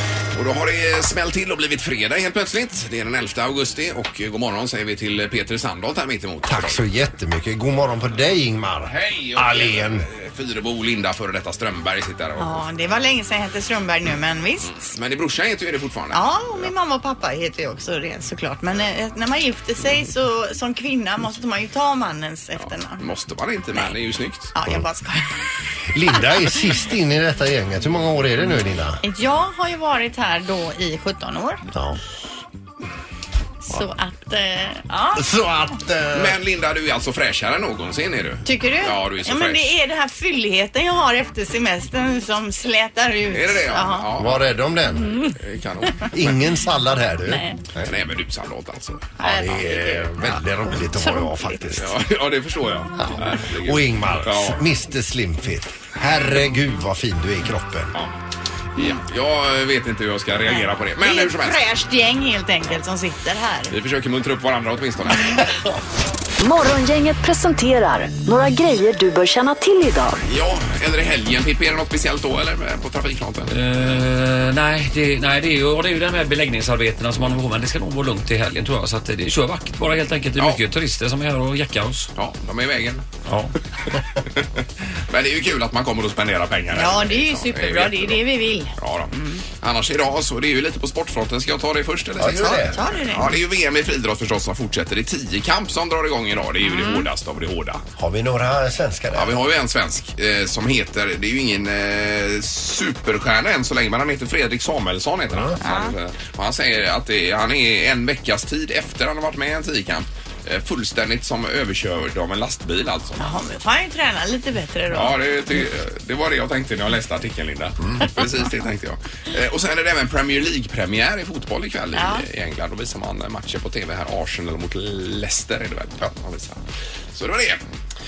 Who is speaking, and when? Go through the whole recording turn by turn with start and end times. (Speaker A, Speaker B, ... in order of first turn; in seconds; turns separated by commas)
Speaker A: 0.3-6.8, Speaker B: 6.5-10.1, Speaker A: 8.9-12.6, Speaker C: 12.4-14.8, Speaker A: 14.7-16.7, Speaker C: 16.1-23.0, Speaker A: 22.6-24.5, Speaker C: 24.5-25.3, Speaker B: 25.9-29.0, Speaker C: 29.0-31.6, Speaker B: 31.7-32.0, Speaker C: 33.6-35.2, Speaker B: 35.1-36.4, Speaker A: 36.1-39.8, Speaker C: 38.5-44.1, Speaker A: 43.3-44.5, Speaker B: 44.2-45.2, Speaker C: 45.0-45.3, Speaker A: 45.4-46.4, Speaker B: 46.1-47.9, Speaker C: 47.3-47.6, Speaker A: 47.8-49.6, Speaker B: 49.2-51.9, Speaker C: 49.2-51.7, Speaker A: 51.7-54.6, Speaker B: 53.0-57.9, Speaker A: 58.8-61.6, Speaker C: 60.5-63.7, Speaker A: 63.7-65.5, Speaker C: 65.2-65.4, Speaker D: 66.4-70.2, Speaker A: 70.3-73.5, Speaker E: 73.5-82.1, Speaker A: 80.4-80.6, Speaker A: 82.2-83.0, Speaker A: 84.3-88.2, Speaker C: 86.7-89.4, Speaker A: 88.8-97.8, Speaker B: 92.2-92.8, Speaker C: 92.5-93.3, Speaker C: 96.6-97.1, Speaker B: 98.0-99.4, Speaker A: 99.2-113.4, Speaker B: 105.3-105.6, Speaker C: 105.6-105.9, Speaker C: 113.2-115.2, Speaker A: 114.9-126.6, Speaker C: 122.0-122.2, Speaker A: 127.1-127.6